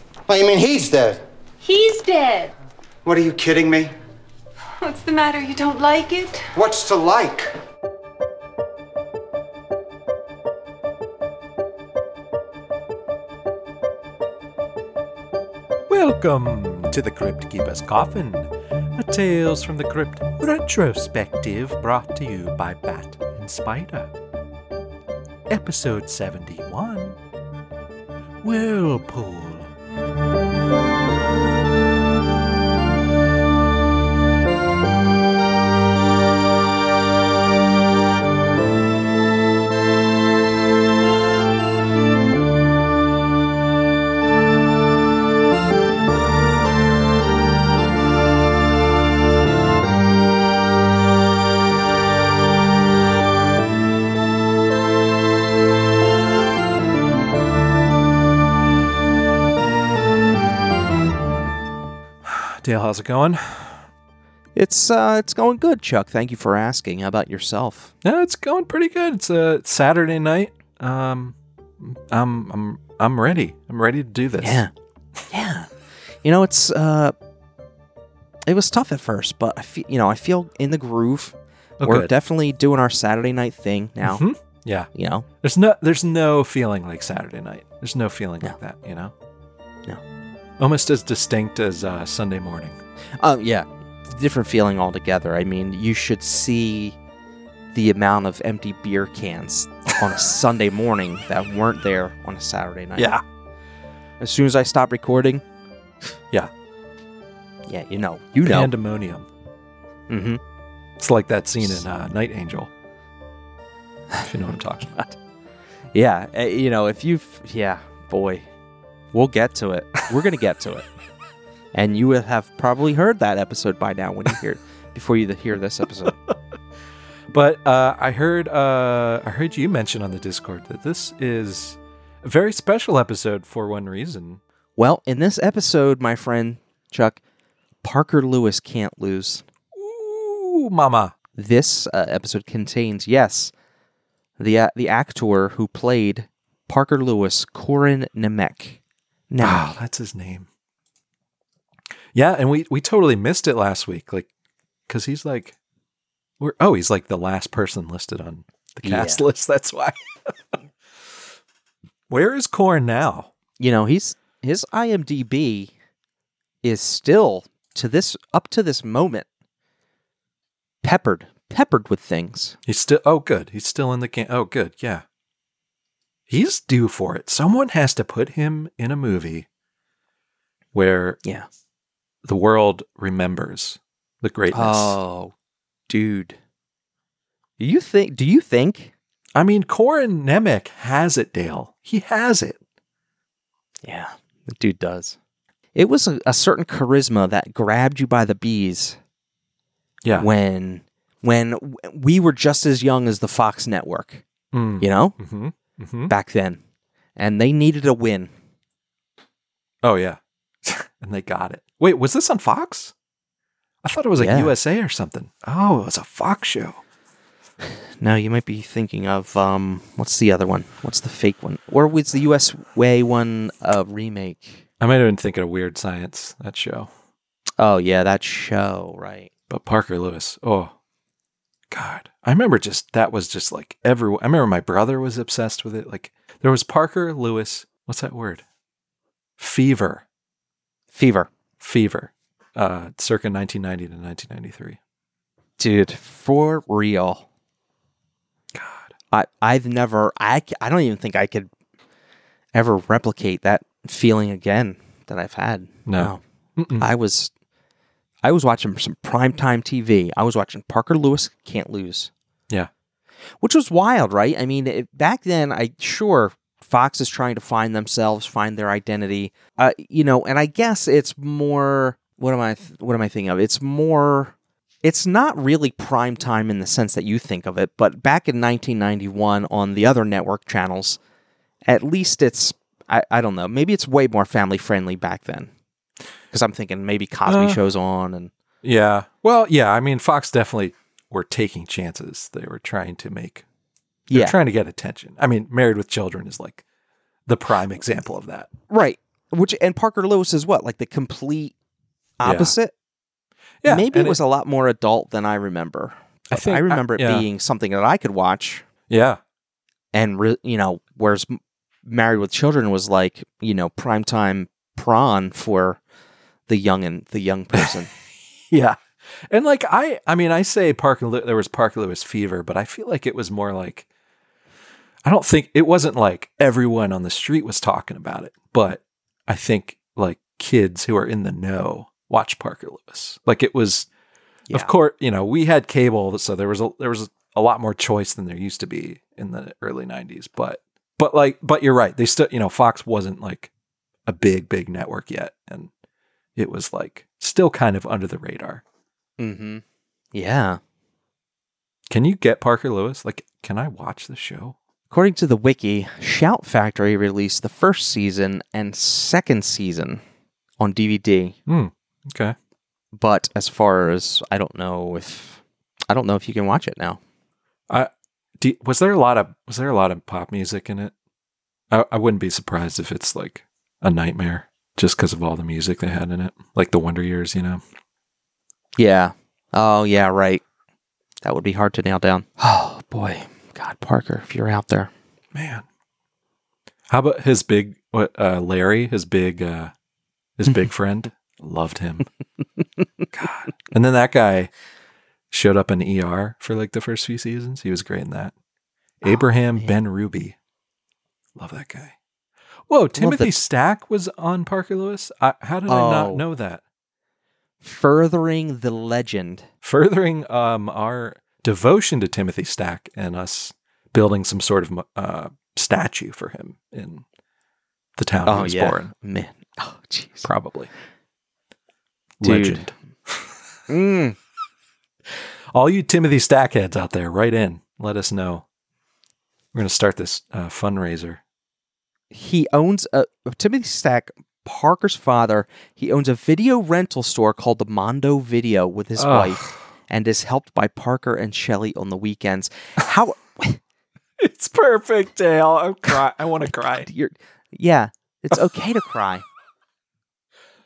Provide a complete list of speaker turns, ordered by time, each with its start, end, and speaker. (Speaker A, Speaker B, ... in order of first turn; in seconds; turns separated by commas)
Speaker A: 0.3-1.2, Speaker B: 1.6-2.5, Speaker A: 3.0-3.9, Speaker B: 4.8-6.5, Speaker A: 6.5-7.5, Speaker C: 15.9-24.1, Speaker C: 25.5-27.2, Speaker C: 28.4-29.7, Speaker C: 62.2-63.9, Speaker D: 64.5-67.9, Speaker C: 68.0-74.6, Speaker D: 74.4-74.7, Speaker D: 75.3-75.7, Speaker D: 76.2-77.1, Speaker D: 78.5-84.2, Speaker C: 81.8-82.1, Speaker C: 84.0-84.9, Speaker D: 84.9-85.3, Speaker C: 85.4-89.1, Speaker C: 90.6-92.8, Speaker D: 93.2-97.0, Speaker D: 97.7-103.2, Speaker C: 103.0-103.2, Speaker D: 104.2-105.4, Speaker D: 107.7-108.7, Speaker C: 108.4-109.3, Speaker D: 110.1-110.4, Speaker C: 111.0-112.7, Speaker C: 114.3-115.0, Speaker D: 115.9-118.5, Speaker D: 119.1-120.9, Speaker D: 121.7-126.2, Speaker C: 127.3-134.4, Speaker D: 134.8-137.2, Speaker D: 137.8-139.5, Speaker C: 139.7-141.2, Speaker D: 141.4-143.5, Speaker D: 144.4-149.8, Speaker C: 149.4-150.5, Speaker C: 152.1-154.3, Speaker C: 154.9-155.6, Speaker C: 156.4-160.3, Speaker D: 158.8-159.2, Speaker C: 162.1-163.3, Speaker D: 163.6-165.7, Speaker D: 166.6-169.3, Speaker D: 170.8-172.6, Speaker C: 172.7-175.0, Speaker C: 176.3-179.5, Speaker C: 180.7-181.2, Speaker C: 182.2-185.0, Speaker D: 184.5-185.3, Speaker D: 185.9-186.4, Speaker D: 187.6-188.9, Speaker C: 189.3-192.6, Speaker D: 193.8-195.2, Speaker D: 195.8-199.0, Speaker C: 200.0-200.3, Speaker D: 200.2-204.2, Speaker C: 204.5-206.1, Speaker D: 204.8-205.2, Speaker D: 206.1-206.6, Speaker D: 207.2-208.3, Speaker C: 209.8-212.9, Speaker C: 213.8-216.8, Speaker D: 214.2-214.5, Speaker D: 217.7-224.6, Speaker C: 224.8-226.9, Speaker D: 227.6-229.3, Speaker C: 229.5-230.7, Speaker C: 231.7-238.4, Speaker C: 239.4-240.0, Speaker D: 240.9-241.3, Speaker C: 241.6-244.8, Speaker D: 245.6-247.3, Speaker C: 248.5-248.9, Speaker D: 249.1-251.5, Speaker D: 252.5-256.2, Speaker C: 255.9-256.9, Speaker D: 256.8-257.3, Speaker D: 258.2-262.1, Speaker D: 263.4-281.0, Speaker D: 281.6-285.5, Speaker D: 286.3-288.3, Speaker C: 287.3-287.6, Speaker C: 288.6-293.4, Speaker D: 294.1-294.4, Speaker C: 294.1-296.6, Speaker C: 297.3-298.5, Speaker D: 298.7-301.6, Speaker D: 302.2-302.7, Speaker C: 302.2-302.6, Speaker C: 303.6-304.2, Speaker D: 303.7-308.7, Speaker C: 306.3-307.3, Speaker C: 308.9-309.2, Speaker D: 309.9-315.8, Speaker D: 316.5-317.9, Speaker C: 318.5-323.9, Speaker C: 325.0-333.9, Speaker C: 334.5-343.5, Speaker C: 344.1-345.7, Speaker C: 346.4-348.6, Speaker D: 349.2-349.6, Speaker D: 350.1-350.6, Speaker C: 351.9-354.6, Speaker D: 354.9-360.0, Speaker D: 360.6-361.4, Speaker C: 361.5-362.4, Speaker D: 362.9-367.0, Speaker C: 367.7-370.9, Speaker C: 371.7-377.6, Speaker D: 378.8-380.4, Speaker D: 381.2-384.9, Speaker C: 385.3-385.6, Speaker C: 386.9-389.7, Speaker C: 390.4-392.1, Speaker C: 393.1-394.5, Speaker C: 395.3-398.3, Speaker C: 399.0-400.4, Speaker C: 401.4-401.9, Speaker C: 402.7-406.6, Speaker D: 403.0-403.4, Speaker D: 405.7-406.2, Speaker D: 407.6-409.5, Speaker C: 409.6-417.1, Speaker C: 418.0-418.9, Speaker D: 418.3-420.3, Speaker C: 420.2-420.7, Speaker C: 422.2-423.3, Speaker D: 422.2-422.7, Speaker D: 423.7-424.2, Speaker C: 425.5-428.4, Speaker C: 429.5-431.2, Speaker D: 432.1-443.6, Speaker C: 439.0-439.6, Speaker C: 444.2-446.9, Speaker D: 446.9-449.2